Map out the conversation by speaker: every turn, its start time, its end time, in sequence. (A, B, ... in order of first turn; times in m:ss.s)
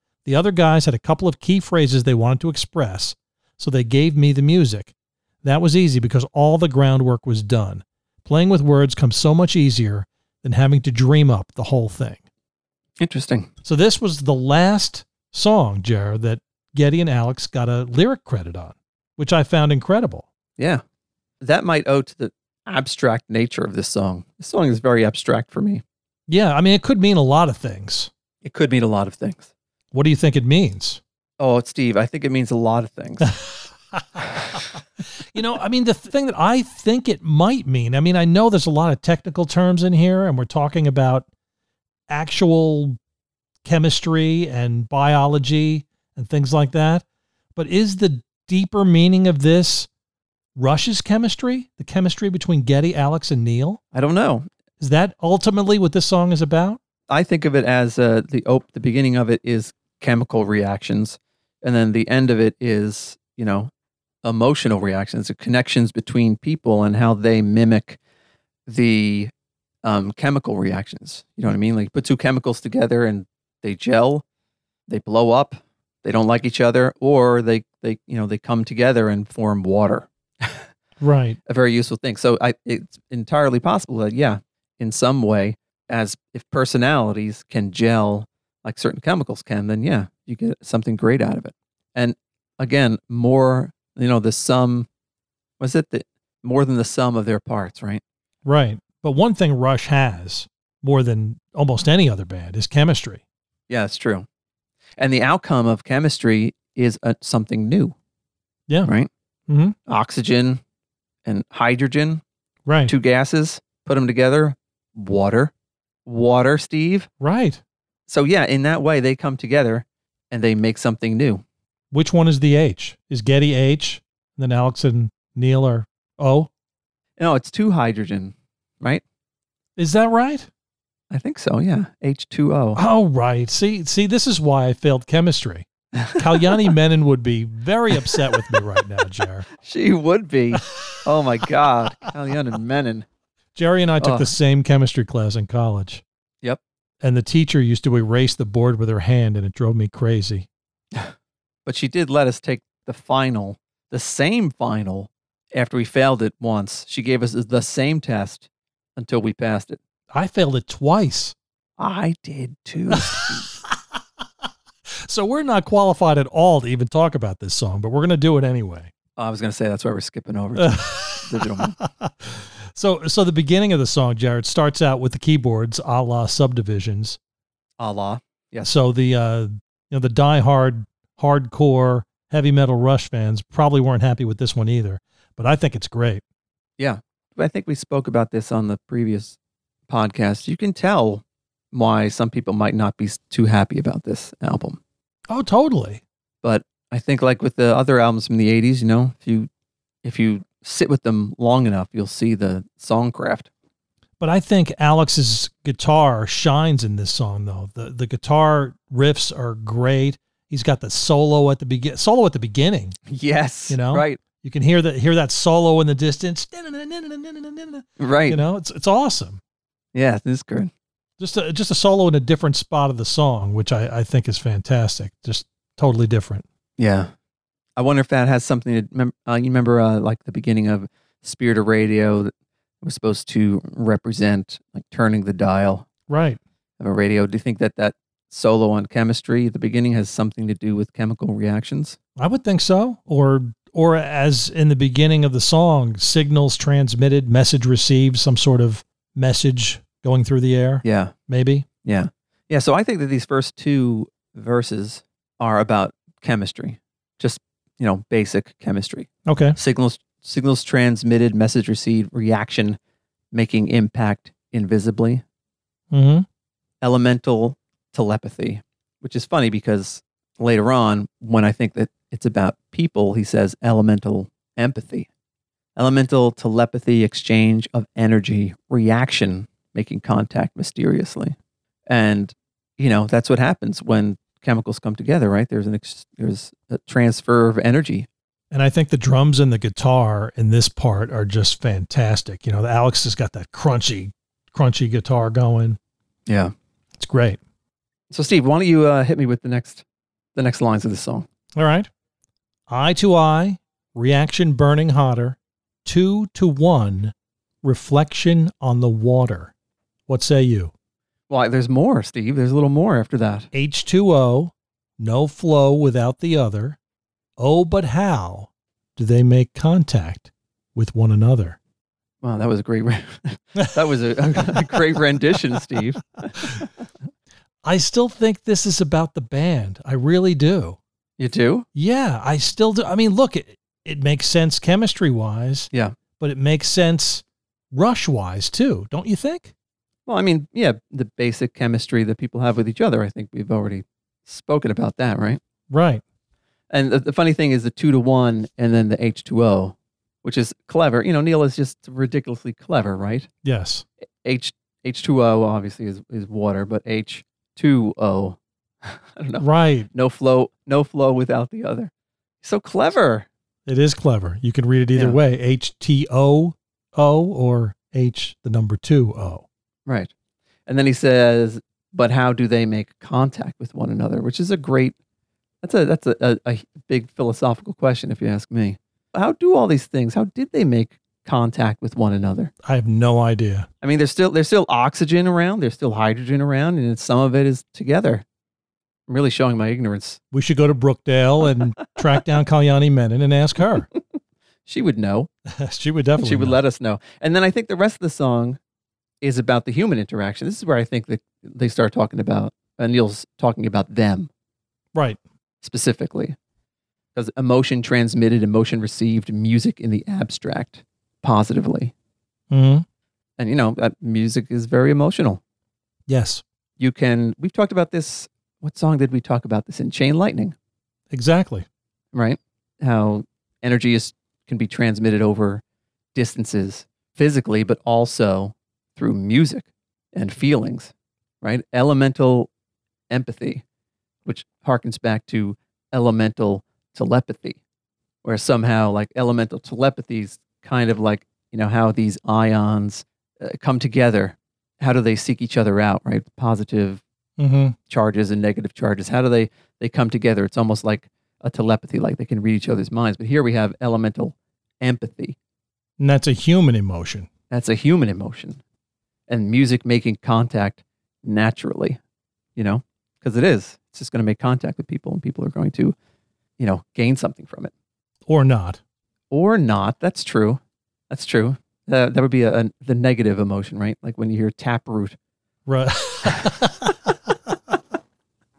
0:00.2-0:12.2 A
0:13.0-0:13.5 B
0:13.6-0:20.2 A
0:21.4-0:25.8 B
0:26.3-0:28.1 A
0:28.4-0:29.5 B
0:29.9-0:31.0 A
0:31.4-0:33.3 B
0:33.2-0:41.3 A
0:42.1-0:43.0 A
0:43.6-0:49.9 A
0:50.6-0:53.8 A
0:53.9-0:54.5 B
0:54.8-0:56.8 A
0:57.1-1:03.7 B
1:04.2-1:08.0 B
1:08.7-1:09.3 B
1:09.8-1:14.2 B
1:14.9-1:20.7 B
1:21.0-1:21.4 A
1:21.4-1:34.9 B
1:35.6-1:38.0 B
1:38.4-1:43.2 A
1:43.7-1:44.2 B
1:45.0-1:47.9 B
1:49.5-1:49.8 A
1:49.9-1:50.6 B
1:51.2-1:52.2 B
1:52.6-1:52.9 A
1:52.9-1:55.5 B
1:56.0-1:57.1 B
1:57.2-1:57.6 A
1:58.1-2:01.4 B
2:01.9-2:06.5 A
2:07.2-2:09.0 B
2:09.8-2:10.5 A
2:11.1-2:12.8 B
2:12.8-2:19.5 A
2:16.0-2:16.7 B
2:19.6-2:23.1 B
2:20.6-2:20.9 A
2:23.5-2:26.0 A
2:24.0-2:24.3 B
2:27.0-2:30.5 A
2:31.6-2:39.8 B
2:40.1-2:41.3 A
2:41.8-2:43.5 B
2:42.9-2:43.8 A
2:45.0-2:48.9 A
2:49.2-2:51.8 B
2:50.6-2:57.2 A
2:57.8-2:58.7 B
2:58.6-3:06.2 A
3:06.8-3:09.4 B
3:09.9-3:14.8 B
3:15.3-3:16.0 A
3:16.4-3:19.5 B
3:20.0-3:23.5 B
3:24.2-3:33.0 A
3:33.1-3:34.2 B
3:33.7-3:39.4 A
3:38.0-3:38.4 B
3:39.9-3:40.7 B
3:41.2-3:46.4 A
3:46.8-3:47.1 B
3:47.8-3:55.9 B
3:56.1-3:56.4 A
3:56.8-4:02.0 B
4:02.2-4:11.6 A
4:10.8-4:11.1 B
4:11.8-4:22.8 B
4:19.2-4:19.6 A
4:23.3-4:25.2 B
4:25.9-4:26.2 A
4:26.8-4:35.1 B
4:35.8-4:41.4 B
4:41.9-4:48.1 B
4:48.5-4:55.8 A
4:56.3-4:56.5 B
4:57.0-4:57.4 A
4:58.1-4:59.8 B
5:00.3-5:01.2 B
5:01.5-5:01.9 A
5:02.7-5:09.5 A
5:10.1-5:10.7 A
5:11.3-5:13.5 B
5:13.5-5:16.8 A
5:17.4-5:21.6 A
5:22.2-5:26.7 B
5:24.4-5:24.8 A
5:27.6-5:30.8 A
5:31.2-5:31.7 B
5:31.7-5:39.5 A
5:40.1-5:45.4 B
5:45.7-5:46.0 A
5:46.7-5:53.3 B
5:53.4-5:53.8 A
5:54.2-6:01.9 B
5:59.4-5:59.9 A
6:02.4-6:03.3 B
6:03.6-6:09.4 A
6:09.8-6:10.1 B
6:10.7-6:15.0 B
6:15.6-6:22.5 B
6:22.6-6:23.7 A
6:23.8-6:28.2 B
6:29.1-6:30.2 B
6:30.3-6:33.9 A
6:34.6-6:35.3 B
6:35.5-6:36.6 A
6:36.2-6:38.6 B
6:39.2-6:44.3 B
6:44.9-6:45.2 A
6:45.6-6:46.4 B
6:47.1-6:51.9 B
6:52.5-6:52.8 A
6:53.4-6:55.4 B
6:56.1-6:56.4 A
6:56.8-7:00.5 B
7:01.1-7:01.6 A
7:02.1-7:05.6 B
7:06.1-7:12.5 B
7:13.1-7:13.6 B
7:14.2-7:17.6 B
7:18.2-7:27.0 B
7:27.4-7:27.8 A
7:27.9-7:35.4 B
7:36.0-7:37.3 A
7:37.5-7:38.6 B
7:39.3-7:42.0 B
7:42.6-7:46.0 B
7:46.6-7:47.7 B
7:48.2-7:48.8 A
7:49.3-7:55.2 B
7:55.7-7:57.7 A